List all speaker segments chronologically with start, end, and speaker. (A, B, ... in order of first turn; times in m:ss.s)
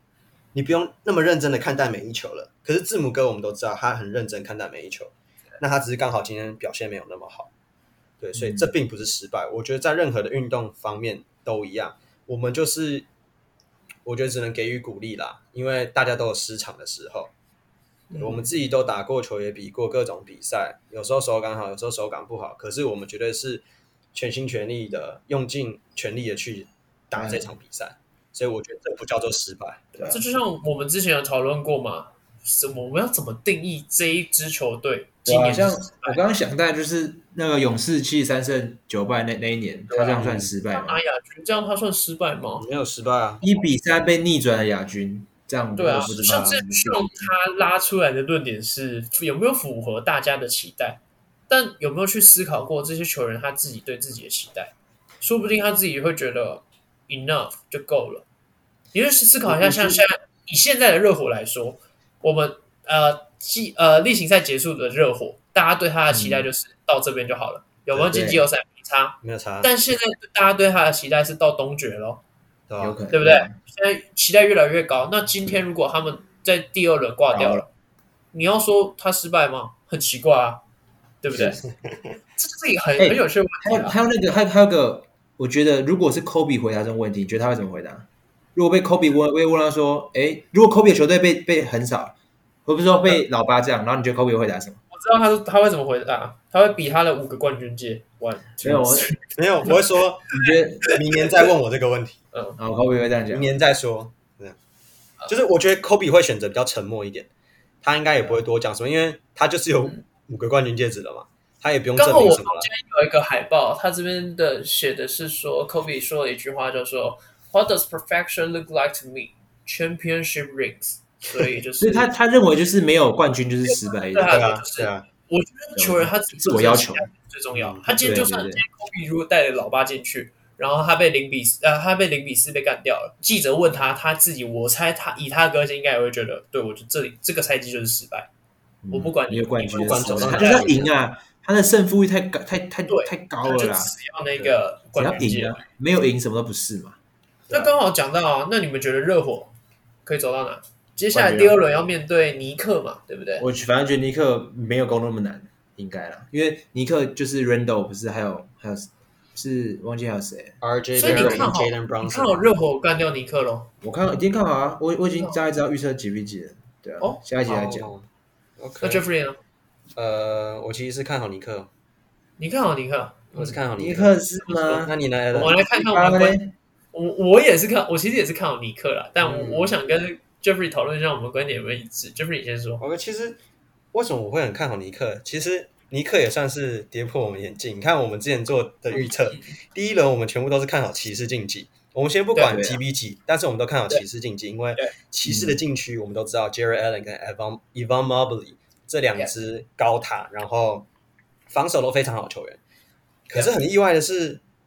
0:00.5-0:07.5 A
0:08.2-0:13.1 A
0:08.3-0:08.7 B
0:14.0-0:17.3 A
0:18.1-0:18.4 C
0:18.2-0:30.0 A
0:27.1-0:27.5 B
0:29.9-0:30.2 B
0:30.1-0:36.2 C
0:35.2-0:41.0 B
0:40.0-0:40.5 A
0:40.7-0:42.6 C
0:42.6-0:43.4 A
0:43.4-0:47.3 B
0:45.8-0:58.2 C
0:46.0-0:46.6 A
0:58.9-1:12.2 C
0:59.4-1:00.0 B
1:06.1-1:06.5 B
1:07.9-1:08.4 B
1:09.2-1:09.7 A
1:12.7-1:13.0 A
1:12.8-1:13.6 B
1:13.1-1:17.7 C
1:17.3-1:17.6 B
1:18.3-1:20.6 C
1:21.2-1:21.6 C
1:22.4-1:24.0 C
1:23.0-1:34.8 B
1:34.9-1:39.2 C
1:38.6-1:39.1 B
1:39.3-1:42.2 A
1:40.3-1:41.0 B
1:40.4-1:41.0 C
1:42.6-1:43.5 B
1:43.3-1:44.6 A
1:45.3-1:47.3 A
1:47.8-1:52.7 A
1:52.0-2:02.1 C
2:01.8-2:04.4 B
2:03.6-2:18.3 C
2:04.3-2:05.0 A
2:05.7-2:07.1 B
2:07.5-2:08.2 A
2:08.0-2:08.6 B
2:18.8-2:23.9 B
2:18.9-2:20.9 C
2:19.7-2:20.8 A
2:22.9-2:25.6 C
2:24.9-2:27.0 B
2:27.5-2:29.5 C
2:30.0-2:33.4 C
2:31.1-2:31.6 B
2:33.4-2:41.5 B
2:40.6-2:42.4 A
2:41.0-2:43.7 C
2:43.8-2:47.9 B
2:47.5-2:48.0 A
2:48.6-2:49.0 A
2:48.8-2:49.4 C
2:50.0-2:51.7 A
2:52.4-2:53.6 C
2:53.3-2:55.6 A
2:53.8-2:56.5 B
2:55.3-2:56.4 C
2:56.9-3:02.8 C
2:59.2-2:59.7 A
3:02.8-3:03.4 A
3:03.9-3:20.9 A
3:08.9-3:09.5 C
3:12.3-3:12.6 C
3:12.4-3:12.8 B
3:15.2-3:15.6 B
3:21.5-3:22.6 A
3:23.3-3:24.4 A